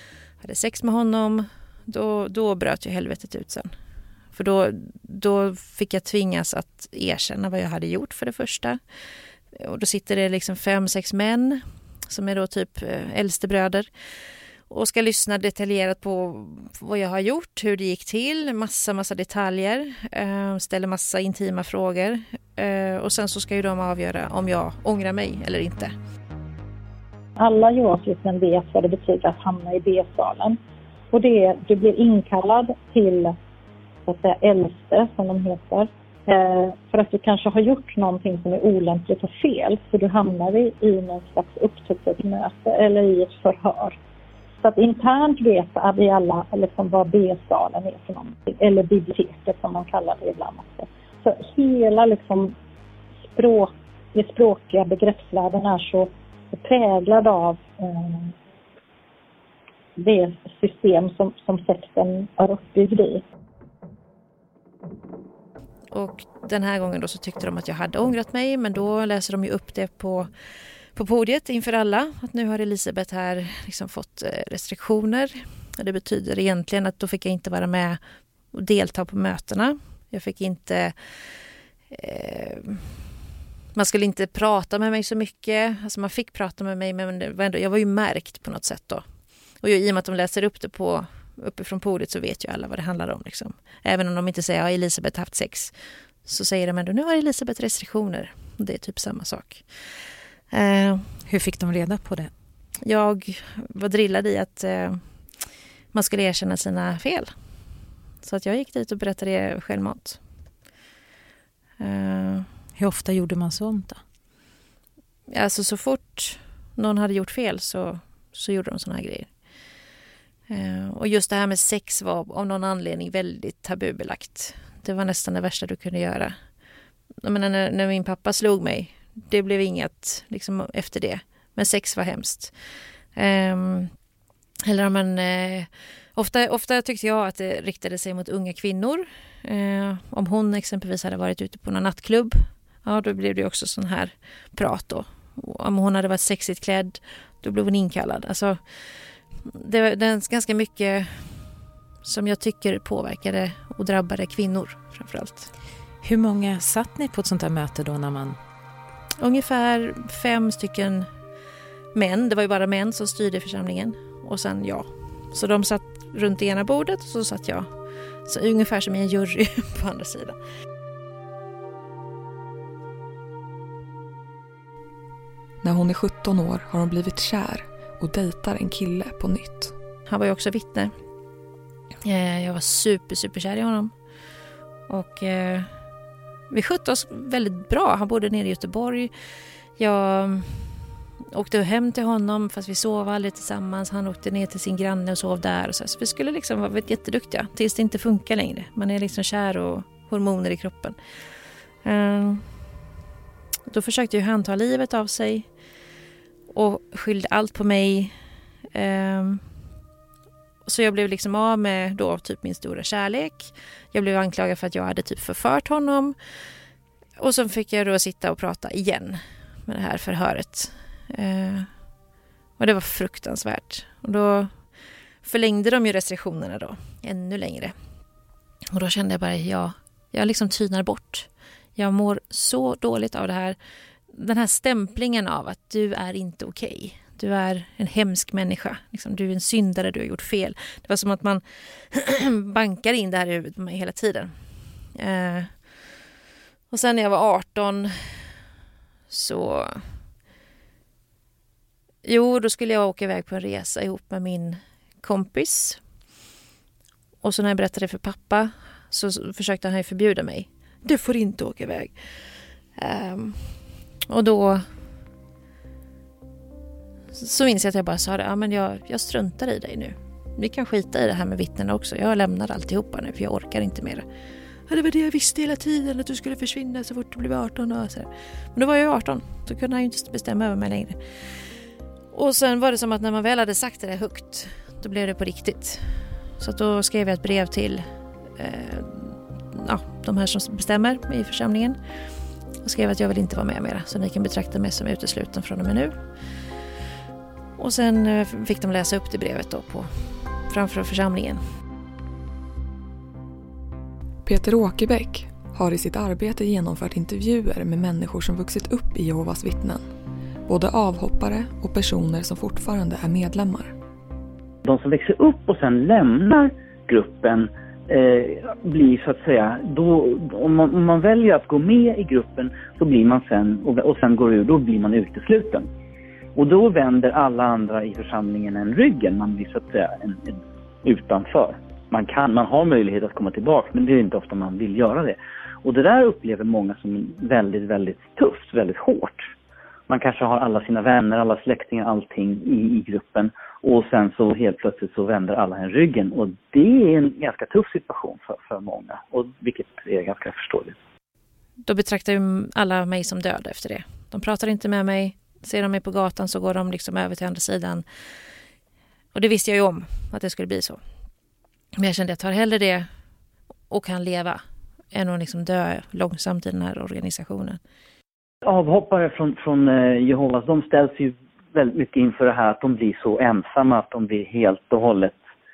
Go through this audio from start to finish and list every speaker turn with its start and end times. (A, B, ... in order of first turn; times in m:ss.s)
0:00.4-0:03.7 A
0:04.3-0:08.8 A
0:09.5-0:13.9 A
0:14.7-0:25.9 A
0:27.4-0:30.6 B
0:31.1-0:33.4 B
0:34.0-0:44.0 B
0:44.6-0:52.5 B
0:53.3-0:58.3 B
1:00.0-1:03.2 B
1:05.9-1:10.3 A
1:10.9-1:18.0 A
1:18.5-1:20.9 A
1:21.9-1:22.9 A
1:23.8-1:29.0 A
1:29.6-1:35.7 A
1:36.2-1:39.6 A
1:40.5-1:41.2 A
1:41.3-1:42.3 C
1:42.8-1:45.0 A
1:45.9-1:47.3 A
1:48.2-1:50.2 A
1:51.8-1:52.5 A
1:52.8-1:54.0 C
1:55.3-1:59.3 A
2:00.5-2:06.4 A
2:07.2-2:12.5 A
2:13.1-2:13.9 A
2:14.6-2:28.6 A
2:29.4-2:31.5 A
2:32.0-2:35.5 A
2:36.0-2:38.4 C
2:39.2-2:41.1 A
2:41.9-2:47.7 A
2:48.2-2:50.4 A
2:55.6-2:59.8 D
3:00.1-3:00.9 A
3:02.0-3:03.9 A
3:04.9-3:05.7 A
3:06.5-3:09.1 A
3:09.8-3:10.8 A
3:11.3-3:21.0 A
3:21.8-3:22.5 A
3:23.7-3:25.5 A
3:26.5-3:28.1 A
3:28.7-3:29.4 A
3:30.6-3:36.1 A
3:37.2-3:41.7 A
3:42.6-3:44.5 A
3:45.2-3:47.7 A
3:48.7-3:53.6 A
3:54.1-4:04.3 A
4:04.9-4:05.5 A
4:06.7-4:08.1 A
4:09.1-4:09.8 A
4:12.0-4:15.8 A
4:17.2-4:21.9 A
4:22.8-4:23.6 A
4:24.1-4:24.6 A
4:27.1-4:34.0 A
4:34.7-4:41.0 A
4:42.1-4:45.9 A
4:46.4-4:47.8 A
4:48.4-4:51.8 A
4:52.6-4:56.0 A
4:57.6-4:59.9 A
5:00.5-5:01.4 A
5:04.2-5:09.8 D
5:10.5-5:13.7 D
5:14.6-5:25.7 E
5:26.4-5:39.3 E
5:39.9-5:50.8 E
5:51.6-5:57.8 A
5:59.1-6:00.8 A
6:01.8-6:02.9 A
6:03.7-6:04.4 A
6:04.9-6:07.6 A
6:08.4-6:15.2 E